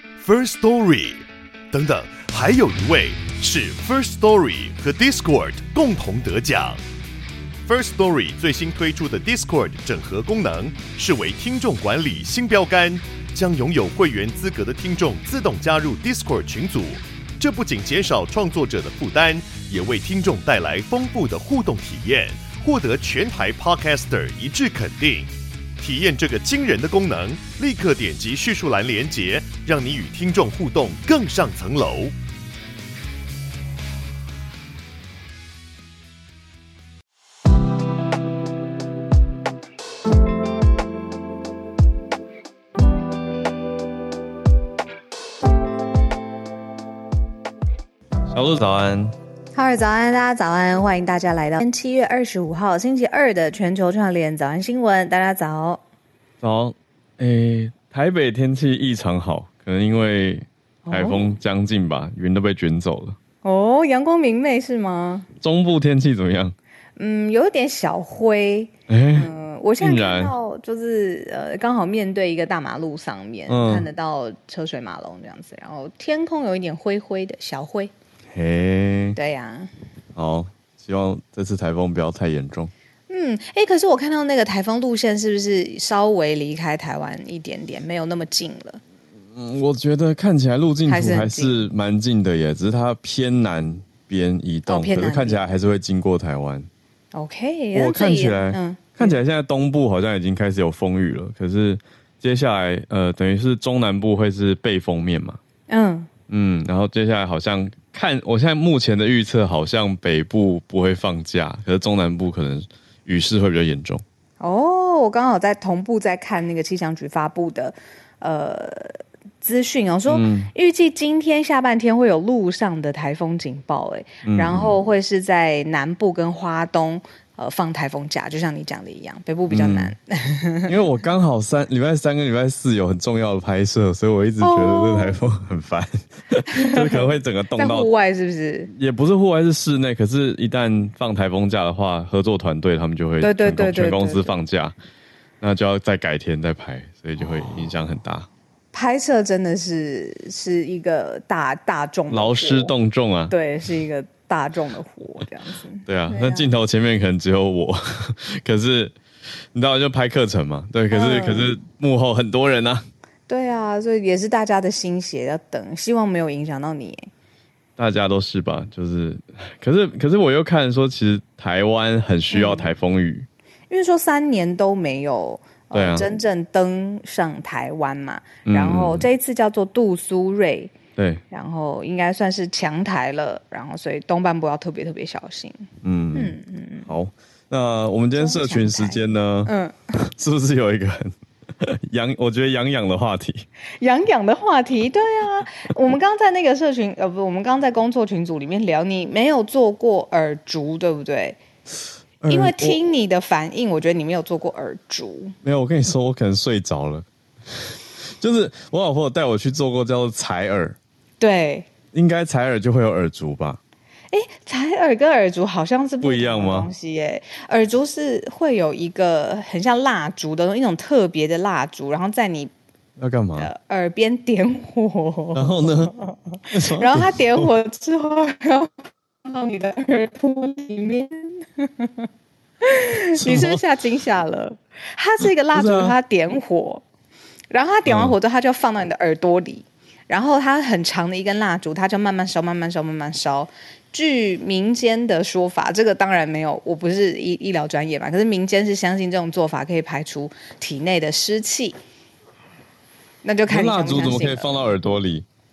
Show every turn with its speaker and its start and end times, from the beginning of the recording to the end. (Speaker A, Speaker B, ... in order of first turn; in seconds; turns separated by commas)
Speaker A: 0.2-1.2, Speaker A: 1.7-6.8, Speaker A: 7.7-32.1, Speaker B: 48.3-49.1, Speaker C: 49.5-55.8, Speaker B: 56.4-63.2, Speaker C: 60.9-61.3, Speaker C: 63.4-65.3, Speaker B: 65.4-66.6, Speaker C: 67.0-77.9, Speaker B: 68.9-70.3, Speaker B: 73.5-73.9, Speaker B: 78.3-79.2, Speaker C: 79.2-79.7, Speaker B: 80.2-82.7, Speaker C: 83.1-88.8, Speaker B: 89.3-96.7, Speaker C: 90.9-91.6, Speaker C: 94.7-95.4, Speaker C: 97.1-99.2, Speaker B: 97.7-105.4, Speaker C: 105.7-106.1, Speaker B: 106.3-114.0, Speaker C: 114.4-130.7, Speaker B: 120.1-120.5, Speaker B: 124.2-124.7, Speaker B: 129.5-129.9, Speaker B: 130.7-137.9, Speaker C: 134.4-135.2, Speaker C: 136.5-138.7, Speaker B: 138.7-144.8, Speaker C: 143.2-144.4, Speaker B: 145.4-148.3, Speaker C: 148.7-152.7, Speaker B: 152.1-153.3, Speaker C: 153.3-156.5, Speaker B: 155.8-159.0, Speaker B: 159.5-162.9, Speaker C: 160.9-161.5, Speaker C: 163.3-167.1, Speaker B: 167.8-173.3, Speaker C: 172.3-172.7, Speaker C: 173.7-180.7, Speaker B: 175.7-176.1, Speaker B: 178.5-179.1, Speaker B: 181.0-181.2, Speaker C: 181.3-186.9, Speaker B: 185.8-193.5, Speaker C: 188.2-189.9, Speaker C: 193.8-201.4, Speaker B: 202.2-202.8, Speaker C: 202.3-205.3, Speaker B: 205.4-210.8, Speaker C: 211.2-211.7, Speaker B: 211.9-213.6, Speaker C: 214.1-222.5, Speaker B: 216.0-216.7, Speaker B: 223.0-223.5, Speaker C: 223.4-232.1, Speaker B: 225.3-225.9, Speaker B: 226.5-227.5, Speaker C: 232.6-236.8, Speaker B: 233.2-233.6, Speaker B: 235.2-235.9, Speaker C: 237.5-251.8, Speaker B: 237.9-238.1, Speaker C: 253.2-254.7, Speaker B: 253.5-255.3